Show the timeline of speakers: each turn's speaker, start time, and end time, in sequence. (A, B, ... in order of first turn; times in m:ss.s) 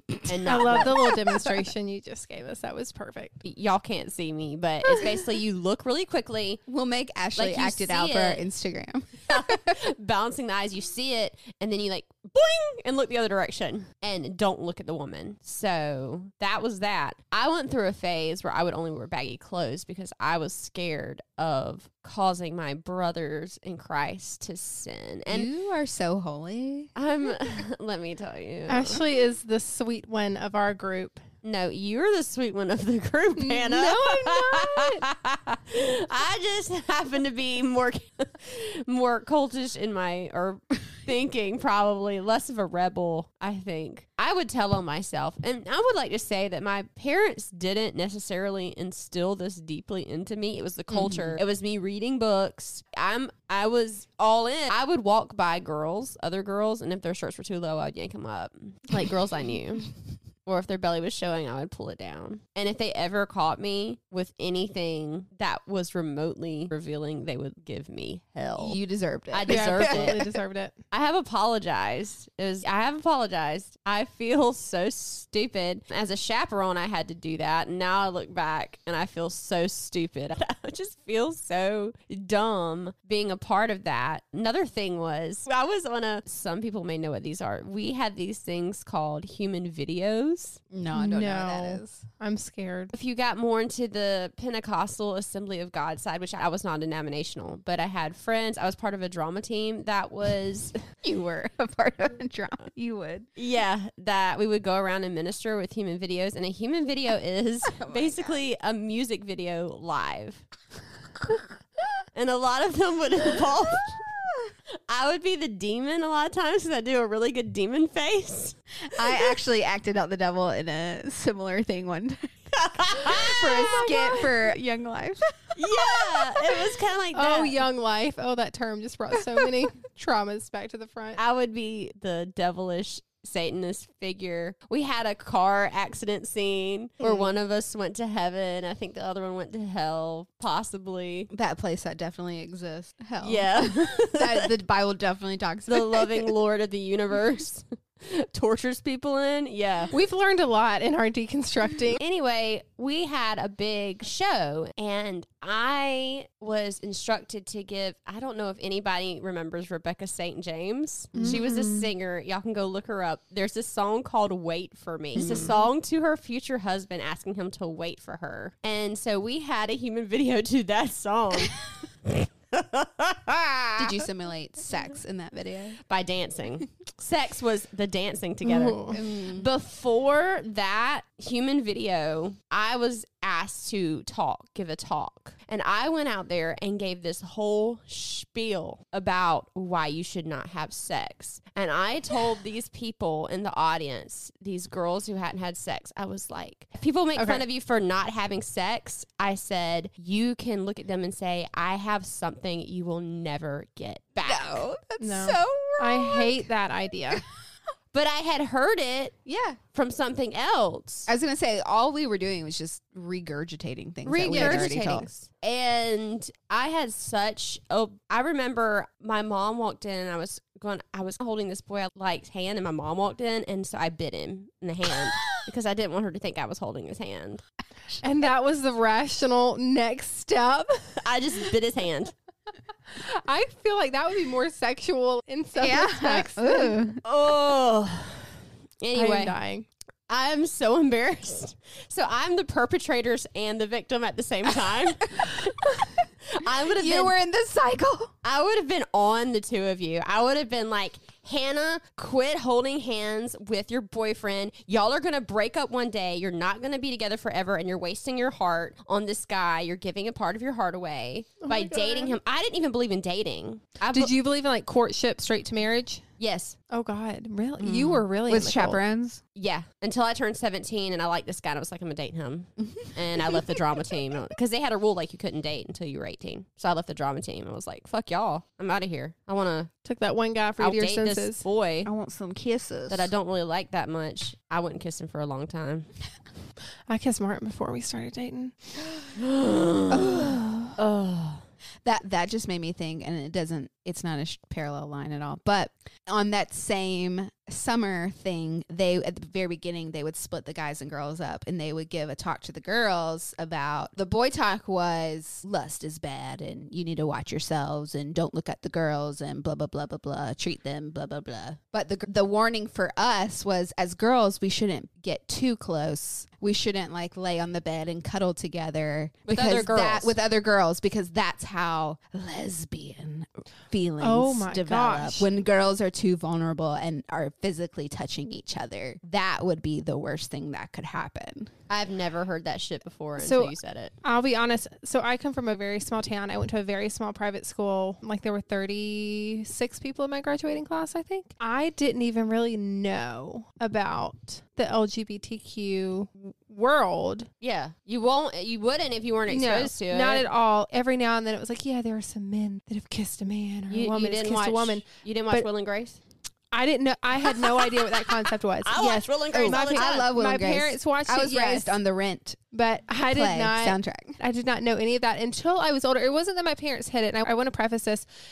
0:00.2-0:01.0 A
0:00.5-0:03.4 B
0:03.4-0:06.6 A
0:06.7-0:09.8 C
0:07.4-0:08.4 A
0:09.3-0:25.5 A
0:25.3-0:26.9 C
0:27.0-0:29.0 A
0:28.7-0:31.2 B
0:31.4-0:59.9 A
0:33.4-0:34.9 B
0:50.9-0:51.4 C
1:00.4-1:08.8 A
1:08.6-1:10.3 C
1:09.3-1:10.2 A
1:09.5-1:10.8 B
1:10.9-1:30.6 A
1:30.7-1:32.0 C
1:30.9-1:32.9 B
1:32.9-1:40.8 A
1:41.0-1:43.3 C
1:43.4-1:50.4 A
1:47.7-1:48.4 C
1:52.1-1:54.1 A
1:54.9-1:58.6 A
1:58.9-2:06.3 C
2:02.5-2:03.9 A
2:03.7-2:04.3 B
2:05.6-2:07.6 A
2:07.1-2:11.2 B
2:11.2-2:21.3 A
2:17.0-2:17.3 C
2:21.3-2:26.3 C
2:23.2-2:24.5 A
2:25.7-2:29.9 A
2:29.9-2:32.0 B
2:32.0-2:54.0 A
2:41.1-2:41.4 C
2:41.2-2:41.9 B
2:45.2-2:45.5 C
2:53.8-2:55.8 C
2:55.9-3:24.6 A
2:58.4-2:59.0 B
2:58.9-2:59.5 C
3:17.2-3:17.4 B
3:24.2-3:26.5 C
3:25.0-3:27.2 B
3:27.9-3:29.2 A
3:29.3-3:29.6 C
3:29.7-3:31.1 A
3:31.1-3:35.1 C
3:34.1-3:47.4 A
3:34.3-3:34.9 B
3:48.0-3:50.9 B
3:51.0-3:52.1 A
3:52.9-3:56.8 B
3:55.6-3:57.0 C
3:57.0-3:58.3 A
3:58.8-3:59.4 A
3:59.0-3:59.7 B
4:00.1-4:05.7 A
4:05.2-4:05.8 C
4:06.3-4:07.2 A
4:06.8-4:08.1 C
4:08.2-4:24.1 A
4:21.4-4:22.2 B
4:23.9-4:26.0 B
4:26.2-4:26.6 A
4:26.7-4:28.8 B
4:27.6-4:29.2 C
4:29.4-4:39.7 A
4:39.8-4:41.4 B
4:40.6-4:41.9 A
4:41.8-4:43.1 C
4:42.9-4:45.9 A
4:46.9-4:48.8 B
4:49.2-4:51.4 A
4:49.9-4:50.8 C
4:51.8-5:31.5 C
5:19.3-5:20.2 A
5:24.0-5:25.3 B
5:31.7-5:33.9 A
5:33.2-5:47.3 B
5:47.4-5:50.2 A
5:49.3-5:55.5 B
5:53.7-5:56.0 A
5:56.5-6:01.8 B
5:57.2-6:00.1 A
5:59.3-6:02.4 C
6:02.5-6:08.1 B
6:03.0-6:04.2 C